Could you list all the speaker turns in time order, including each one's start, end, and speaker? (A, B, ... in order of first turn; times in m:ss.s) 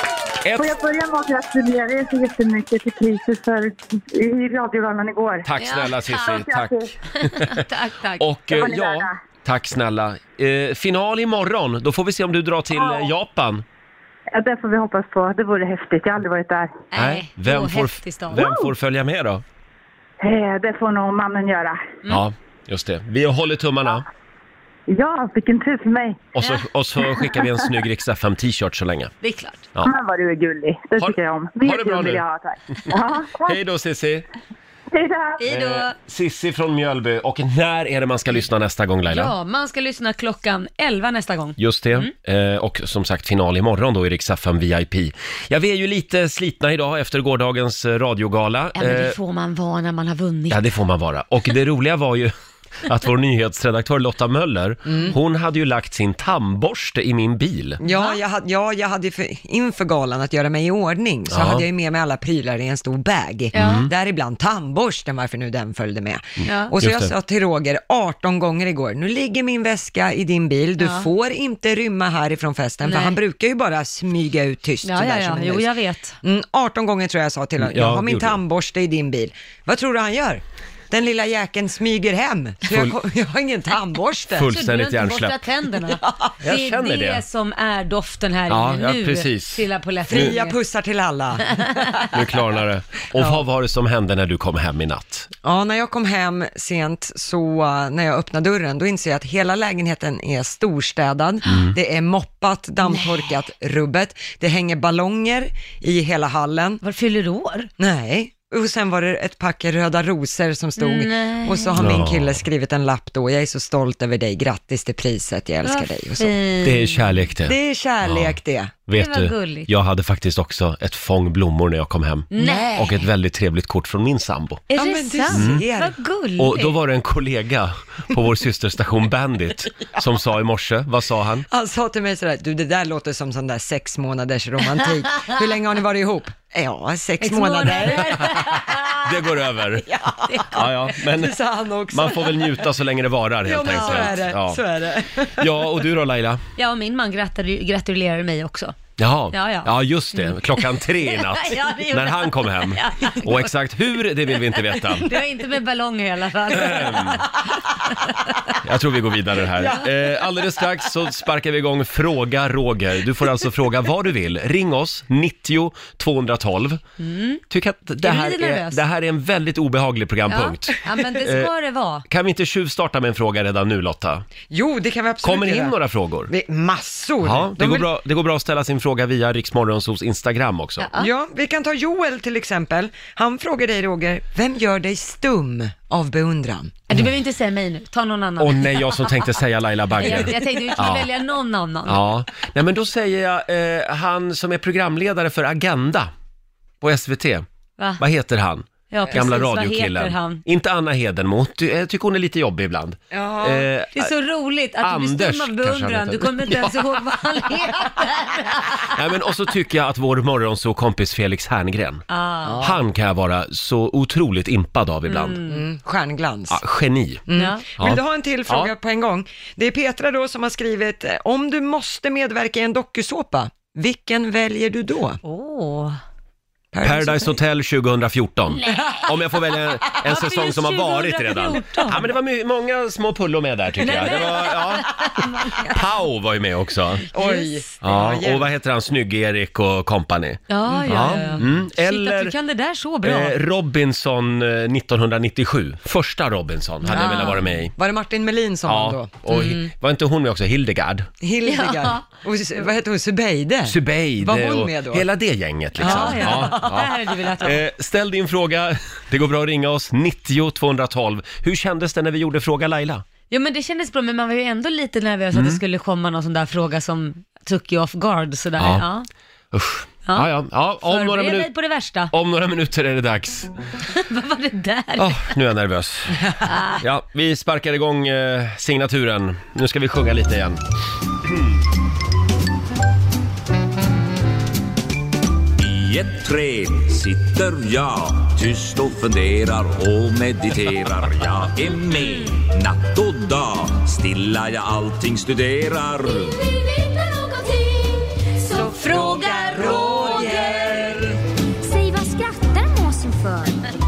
0:00.4-0:00.7 A
0:00.6-0:05.4 B
0:05.4-0:07.6 A
0:05.6-0:06.4 C
0:06.4-0:06.6 B
0:07.2-0:08.2 C
0:08.2-0:13.6 A
0:08.5-0:09.0 B
0:14.3-0:16.7 B
0:16.9-0:18.5 C
0:17.0-0:19.4 A
0:20.2-0:21.7 B
0:22.1-0:24.0 A
0:24.9-0:26.1 B
0:26.3-0:29.1 A
0:29.2-0:29.7 C
0:29.8-0:33.3 B
0:31.0-0:32.2 A
0:33.4-0:34.2 A
0:35.4-0:35.9 C
0:35.5-0:39.3 A
0:39.1-0:42.1 C
0:41.6-0:49.1 A
0:48.8-0:50.7 C
0:50.5-0:52.3 A
0:52.8-0:57.8 A
0:54.8-0:55.2 D
0:57.8-1:15.7 D
0:57.8-0:58.2 C
1:01.3-1:01.6 A
1:03.5-1:03.9 A
1:03.5-1:03.8 C
1:06.4-1:06.7 C
1:06.8-1:07.1 A
1:10.8-1:11.1 C
1:12.8-1:13.2 C
1:14.8-1:16.2 C
1:16.2-1:24.5 D
1:17.6-1:18.4 A
1:22.7-1:22.9 A
1:24.3-1:25.4 A
1:24.5-1:30.6 C
1:26.4-1:27.2 A
1:28.5-1:30.3 A
1:30.1-1:31.9 D
1:32.1-1:35.3 A
1:35.4-1:46.8 D
1:41.5-1:41.7 A
1:42.9-1:43.2 C
1:46.8-1:47.7 C
1:47.8-1:56.3 D
1:50.8-1:51.8 C
1:51.8-1:52.4 A
1:55.6-1:57.1 C
1:56.6-2:04.6 A
1:57.4-1:58.7 D
1:59.0-1:59.7 C
2:02.3-2:03.0 C
2:02.4-2:02.9 D
2:04.7-2:06.8 C
2:04.7-2:06.0 D
2:05.3-2:05.6 A
2:06.4-2:11.5 A
2:11.5-2:18.6 D
2:17.2-2:19.0 C
2:18.9-2:19.8 A
2:19.9-2:22.6 D
2:20.3-2:20.7 C
2:20.5-2:21.4 A
2:21.9-2:24.6 A
2:23.4-2:25.6 D
2:23.6-2:24.2 C
2:25.4-2:26.4 A
2:26.6-2:28.8 C
2:29.0-2:35.1 A
2:29.3-2:33.5 C
2:34.6-2:38.4 C
2:36.5-2:37.2 A
2:38.6-2:46.8 A
2:39.6-2:39.9 D
2:47.0-2:47.4 C
2:47.5-2:51.5 A
2:48.0-2:48.8 C
2:50.3-2:52.0 C
2:52.1-2:54.2 A
2:54.5-2:55.7 D
2:55.2-2:56.3 A
2:56.3-2:57.9 D
2:57.2-3:00.9 A
3:00.8-3:01.1 C
3:01.0-3:06.8 D
3:06.9-3:09.2 C
3:08.4-3:11.1 A
3:10.0-3:12.0 C
3:11.8-3:16.1 A
3:16.8-3:17.4 A
3:18.0-3:24.1 A
3:18.9-3:20.4 C
3:23.1-3:23.7 D
3:23.9-3:28.9 C
3:24.8-3:26.7 A
3:28.8-3:32.0 A
3:32.1-3:32.6 C
3:32.4-3:32.8 D
3:32.6-3:35.4 A
3:35.1-3:35.6 C
3:35.5-3:36.6 D
3:36.5-3:37.2 A
3:37.3-3:45.2 D
3:37.3-3:37.6 C
3:37.8-3:38.7 A
3:45.2-3:46.0 C
3:46.7-3:47.4 D
3:46.8-3:55.0 A
3:49.9-3:52.0 C
3:53.8-3:55.8 C
3:55.6-3:57.0 A
3:57.1-3:57.6 C
3:57.1-3:58.5 D
3:57.8-4:02.3 A
4:00.5-4:03.4 C
4:00.7-4:01.4 D
4:03.0-4:07.7 A
4:06.9-4:09.7 D
4:06.9-4:07.4 C
4:08.7-4:11.1 A
4:11.2-4:15.0 D
4:11.4-4:12.0 C
4:13.6-4:23.0 A
4:15.8-4:16.9 D
4:15.8-4:17.6 C
4:23.3-4:29.1 C
4:25.3-4:25.6 A
4:28.6-4:28.8 A
4:29.5-4:31.5 A
4:30.8-4:32.1 C
4:32.1-4:33.5 A
4:33.9-4:35.3 C
4:35.0-4:40.6 A
4:36.4-4:36.8 C
4:45.6-4:56.3 E
4:56.4-5:00.6 F
4:58.5-5:01.0 D
5:01.6-5:03.6 F